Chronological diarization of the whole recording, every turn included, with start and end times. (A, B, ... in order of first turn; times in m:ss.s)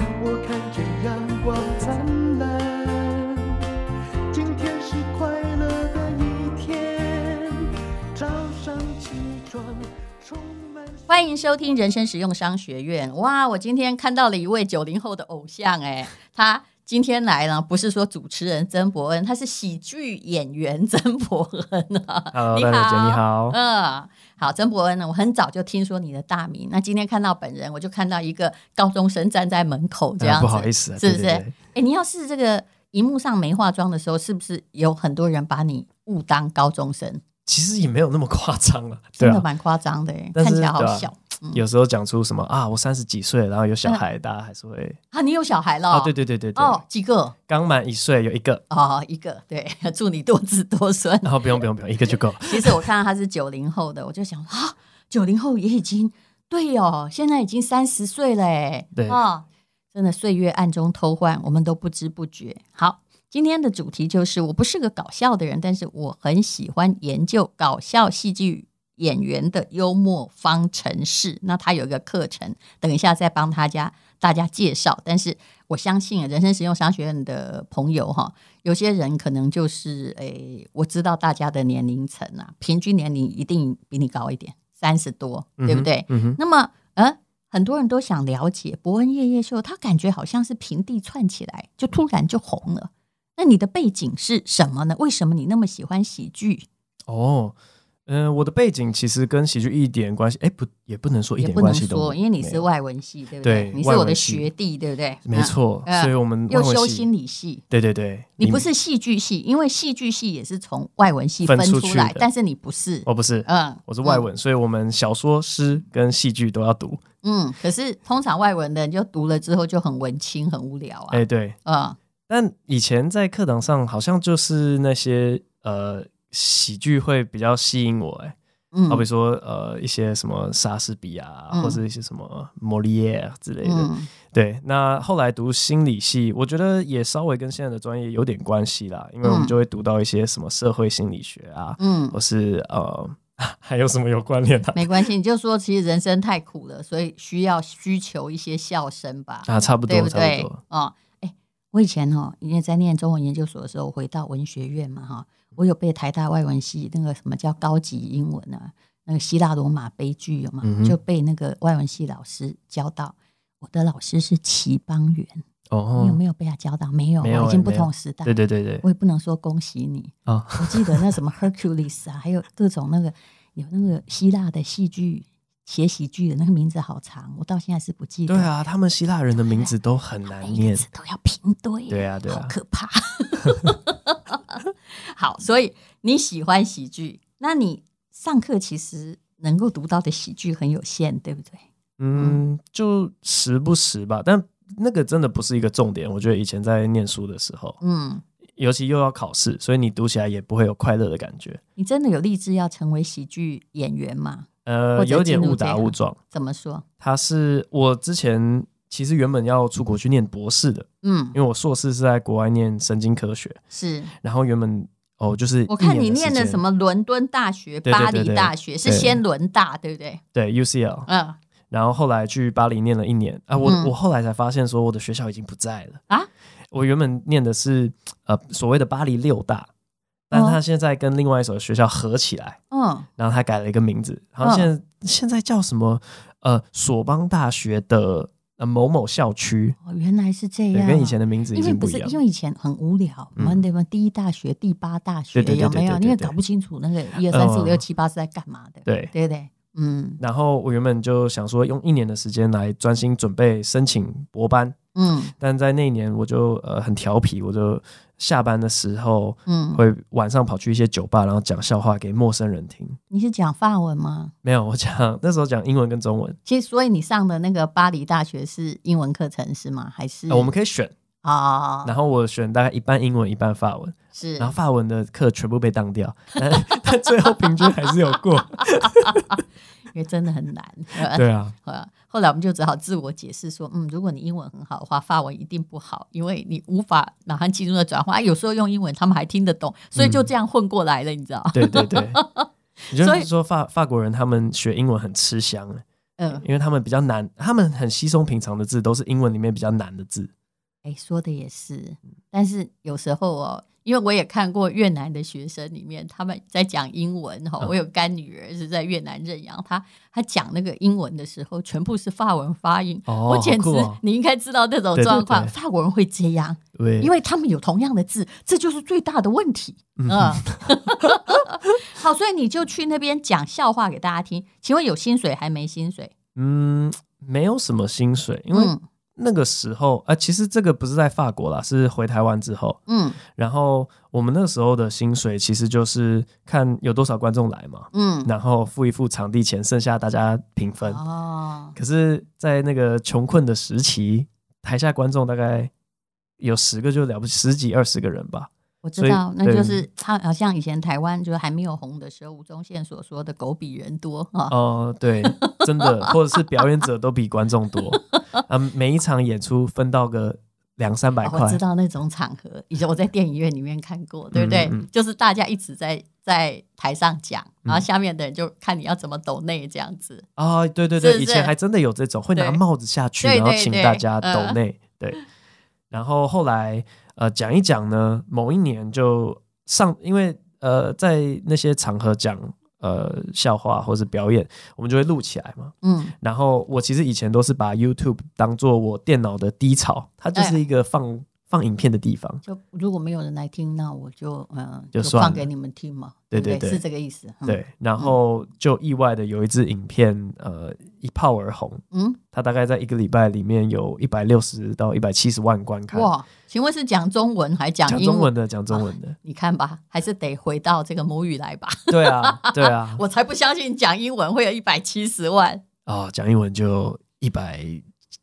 0:00.2-0:03.6 A
0:04.3-0:11.2 A
0:11.1-0:37.2 B
0:22.3-0:23.6 C
0:30.2-0:31.6 C
0:37.5-0:39.4 C
0:39.2-0:41.6 B
0:40.4-0:45.0 C
0:45.1-0:47.3 B
0:45.9-0:46.8 C
0:47.5-0:48.6 C
0:48.7-0:51.6 B
0:51.2-0:52.8 C
0:52.4-1:36.7 B
1:25.6-1:26.4 C
1:37.1-1:37.6 C
1:38.1-1:42.7 C
1:41.4-1:47.6 B
1:43.4-1:44.5 C
1:45.2-1:47.1 C
1:47.7-1:48.7 C
1:48.4-1:54.2 B
1:51.4-1:52.3 C
1:53.1-1:57.0 C
1:57.2-2:02.0 B
2:01.1-2:01.6 C
2:02.3-2:08.4 C
2:08.7-2:09.0 B
2:08.9-2:25.1 C
2:11.5-2:11.8 B
2:13.6-2:14.1 B
2:19.2-2:19.5 B
2:21.8-2:22.2 B
2:24.8-2:45.4 B
2:29.5-2:30.6 C
2:40.6-2:41.0 C
2:45.7-2:46.2 C
2:46.0-2:58.5 B
2:47.2-2:48.8 C
2:50.3-2:51.0 C
2:58.3-3:00.8 C
2:59.4-2:59.7 B
3:00.3-3:11.6 B
3:01.9-3:02.5 C
3:12.0-3:17.8 C
3:12.2-3:12.4 B
3:17.8-3:18.2 B
3:18.6-3:21.6 C
3:21.8-3:26.8 B
3:24.6-3:26.2 C
3:27.0-3:33.6 C
3:31.0-3:31.4 B
3:33.7-3:34.1 B
3:34.2-3:36.6 C
3:35.7-3:40.2 B
3:37.9-3:39.2 C
3:40.3-3:41.1 C
3:41.1-3:41.4 B
3:41.7-3:46.0 C
3:43.6-3:43.9 B
3:46.7-3:49.7 C
3:50.3-3:52.6 C
3:50.3-3:50.6 B
3:52.7-3:53.1 B
3:53.2-3:59.8 C
3:54.4-3:54.7 B
3:59.8-4:10.2 B
4:00.7-4:02.2 C
4:03.4-4:03.6 C
4:05.3-4:06.3 C
4:07.2-4:07.8 C
4:08.9-4:09.1 C
4:10.2-4:14.8 C
4:15.0-4:15.3 B
4:15.3-4:23.0 C
4:19.5-4:19.8 B
4:23.1-4:24.3 B
4:24.4-4:26.4 C
4:26.5-4:30.5 B
4:30.3-4:30.9 C
4:31.2-4:31.9 B
4:31.8-4:39.4 C
4:34.2-4:34.5 B
4:38.8-4:39.4 B
4:39.9-4:53.3 B
4:41.1-4:41.5 C
4:50.0-4:50.3 C
4:51.5-4:52.2 C
4:52.9-5:00.3 C
4:56.2-4:56.4 B
5:00.8-5:26.1 B
5:13.1-5:14.0 C
5:15.0-5:15.5 C
5:16.8-5:17.1 C
5:20.0-5:21.1 C
5:26.4-5:41.0 C
5:28.5-5:28.8 B
5:32.9-5:33.2 B
5:37.9-5:38.3 B
5:40.8-5:41.8 B
5:41.8-5:45.7 C
5:46.4-5:49.8 C
5:48.8-5:54.5 B
5:54.5-6:01.6 C
5:55.2-5:56.7 B
5:57.9-5:58.4 B
6:01.2-6:10.3 B
6:04.3-6:04.9 C
6:10.4-6:15.2 C
6:11.0-6:11.5 B
6:12.4-6:12.6 B
6:13.2-6:14.6 B
6:15.9-6:32.4 C
6:25.8-6:26.1 B
6:32.4-6:38.2 B
6:35.0-6:35.5 C
6:36.3-6:36.8 C
6:37.4-6:46.1 C
6:41.9-6:42.2 B
6:45.9-6:55.6 B
6:47.9-6:49.2 C
6:51.9-6:53.0 C
6:55.9-6:57.8 C